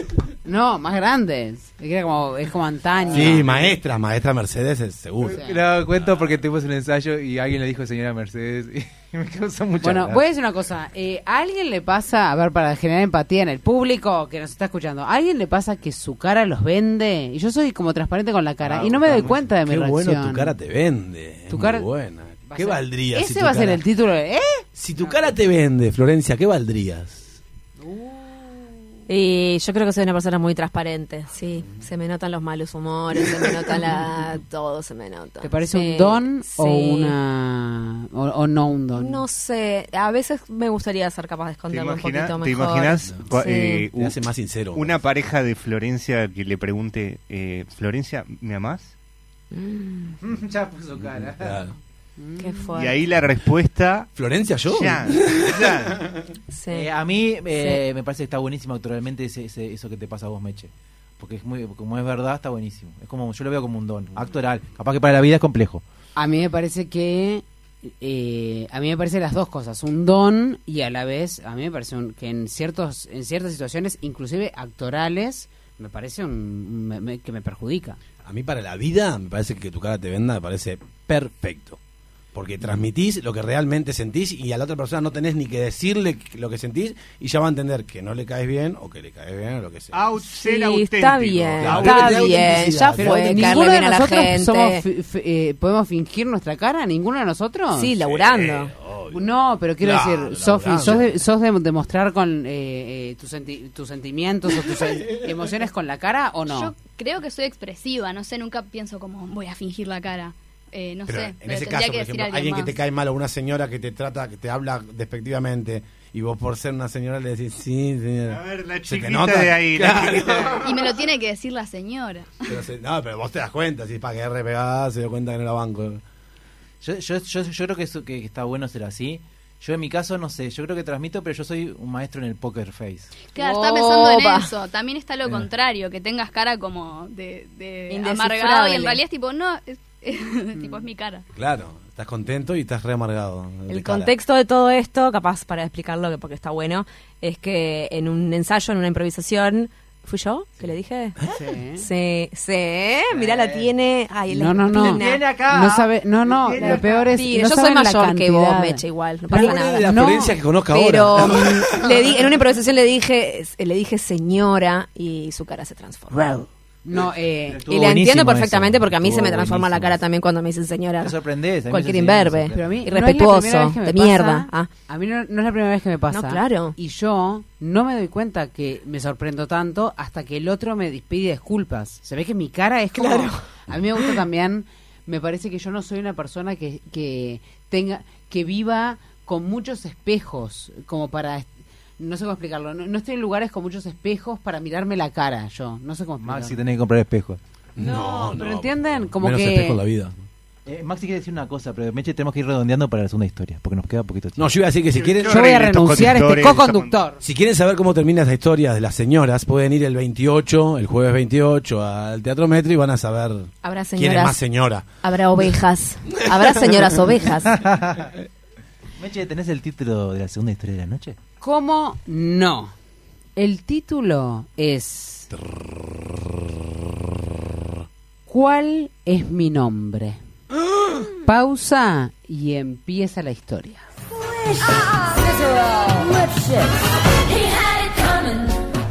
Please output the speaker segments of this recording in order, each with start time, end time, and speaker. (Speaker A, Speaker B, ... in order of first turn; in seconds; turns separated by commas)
Speaker A: 0.5-3.5, Speaker B: 3.1-5.4, Speaker C: 3.1-3.5, Speaker C: 5.3-10.2, Speaker A: 9.8-20.5, Speaker B: 19.1-23.8, Speaker A: 21.5-21.9, Speaker A: 22.5-25.2, Speaker B: 24.8-27.3, Speaker A: 27.8-28.6, Speaker D: 29.1-37.2, Speaker A: 35.4-39.2, Speaker D: 39.0-43.9, Speaker E: 41.7-44.1, Speaker B: 43.9-45.0, Speaker E: 44.7-48.9, Speaker D: 49.5-50.1, Speaker C: 50.2-51.7, Speaker B: 51.1-51.7, Speaker A: 52.2-52.5, Speaker D: 52.4-53.0, Speaker E: 52.7-54.1, Speaker B: 54.1-56.0, Speaker E: 54.6-56.0, Speaker D: 56.5-56.9, Speaker C: 56.7-65.8, Speaker D: 57.5-57.8, Speaker A: 66.2-78.0, Speaker B: 78.2-81.8, Speaker B: 82.3-90.0, Speaker E: 89.9-92.3, Speaker D: 90.3-94.8, Speaker B: 91.6-93.8, Speaker A: 93.0-97.9, Speaker D: 97.7-98.7, Speaker B: 98.0-99.3, Speaker A: 99.1-106.7, Speaker B: 99.8-101.2, Speaker F: 106.5-112.7, Speaker B: 111.1-121.0, Speaker E: 118.3-120.7, Speaker F: 120.6-122.5, Speaker B: 122.5-126.0, Speaker C: 126.8-133.2, Speaker F: 133.3-141.2, Speaker D: 133.3-134.5, Speaker D: 137.9-139.0, Speaker B: 141.3-144.1, Speaker D: 143.7-151.2, Speaker A: 151.3-151.8, Speaker D: 151.8-155.2, Speaker C: 153.1-153.7, Speaker A: 154.3-160.4, Speaker C: 154.8-157.1, Speaker D: 156.6-160.1, Speaker B: 159.3-162.2, Speaker D: 160.7-166.4, Speaker A: 166.8-167.6, Speaker C: 167.5-170.0, Speaker D: 167.7-174.7, Speaker C: 171.0-172.9, Speaker A: 172.5-196.6, Speaker D: 176.1-176.7, Speaker D: 182.9-183.4, Speaker C: 196.2-197.4, Speaker B: 197.8-200.2, Speaker A: 197.8-199.8, Speaker C: 200.7-204.5, Speaker B: 204.4-205.5, Speaker E: 204.9-207.0, Speaker A: 205.3-207.2, Speaker B: 207.2-214.8, Speaker D: 213.6-214.4, Speaker D: 215.0-217.6, Speaker C: 217.4-218.1, Speaker C: 219.0-221.2, Speaker A: 221.4-222.7, Speaker A: 223.3-225.3, Speaker A: 228.3-230.2, Speaker A: 231.2-233.8